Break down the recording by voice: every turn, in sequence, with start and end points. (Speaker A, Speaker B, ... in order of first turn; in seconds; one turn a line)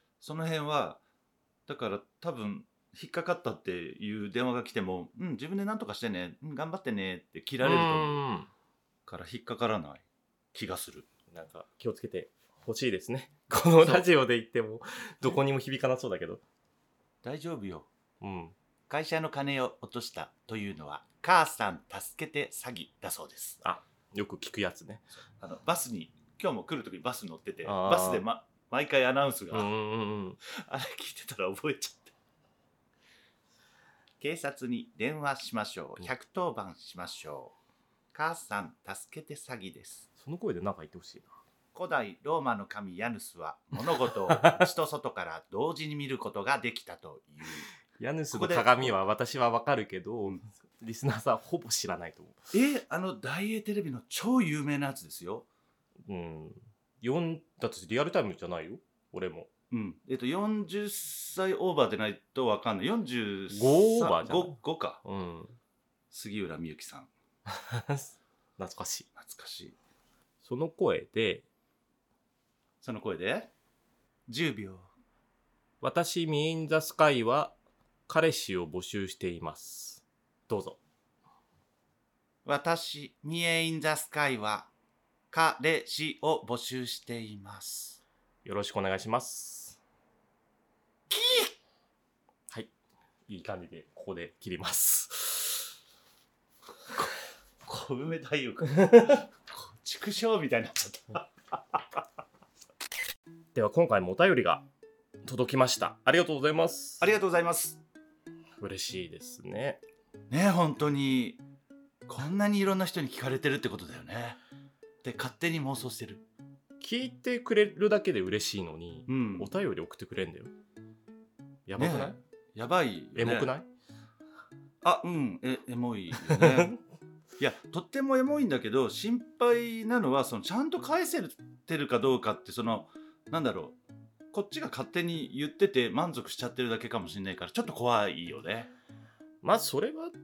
Speaker A: 0.2-1.0
Speaker A: 1.7-8.2
Speaker B: 7.6-8.5
Speaker A: 9.1-11.1
Speaker B: 11.3-16.4
Speaker A: 13.8-14.1
Speaker A: 17.2-17.9
Speaker B: 18.2-18.6
Speaker A: 18.9-23.6
Speaker B: 23.6-25.1
Speaker A: 25.4-29.7
Speaker B: 27.6-28.2
Speaker B: 29.5-30.4
Speaker A: 30.4-32.1
Speaker A: 34.2-37.5
Speaker A: 38.1-40.1
Speaker B: 40.2-41.3
Speaker A: 41.7-47.7
Speaker B: 44.3-44.6
Speaker B: 48.0-52.4
Speaker A: 48.3-48.9
Speaker A: 52.5-55.5
Speaker B: 56.1-59.5
Speaker A: 59.7-65.0
Speaker B: 63.5-65.5
Speaker A: 66.1-67.1
Speaker B: 67.5-69.1
Speaker A: 69.1-69.8
Speaker B: 70.4-71.5
Speaker A: 72.8-73.5
Speaker A: 74.3-74.9
Speaker B: 75.8-77.5
Speaker B: 78.1-80.8
Speaker A: 82.4-84.7
Speaker A: 85.3-88.0
Speaker B: 88.4-89.8
Speaker A: 91.1-91.5
Speaker B: 93.3-95.7
Speaker A: 97.6-102.0
Speaker B: 98.8-99.1
Speaker B: 103.5-104.6
Speaker B: 105.2-107.1
Speaker A: 107.0-107.8
Speaker B: 108.6-109.8
Speaker A: 110.3-111.4
Speaker A: 112.0-114.4
Speaker A: 115.0-116.2
Speaker B: 116.8-120.5
Speaker A: 119.1-119.5
Speaker B: 121.7-122.1
Speaker A: 121.8-123.5
Speaker B: 123.1-123.7
Speaker A: 124.8-126.8
Speaker B: 126.3-126.8
Speaker A: 127.4-133.8
Speaker A: 134.3-138.7
Speaker B: 139.4-140.1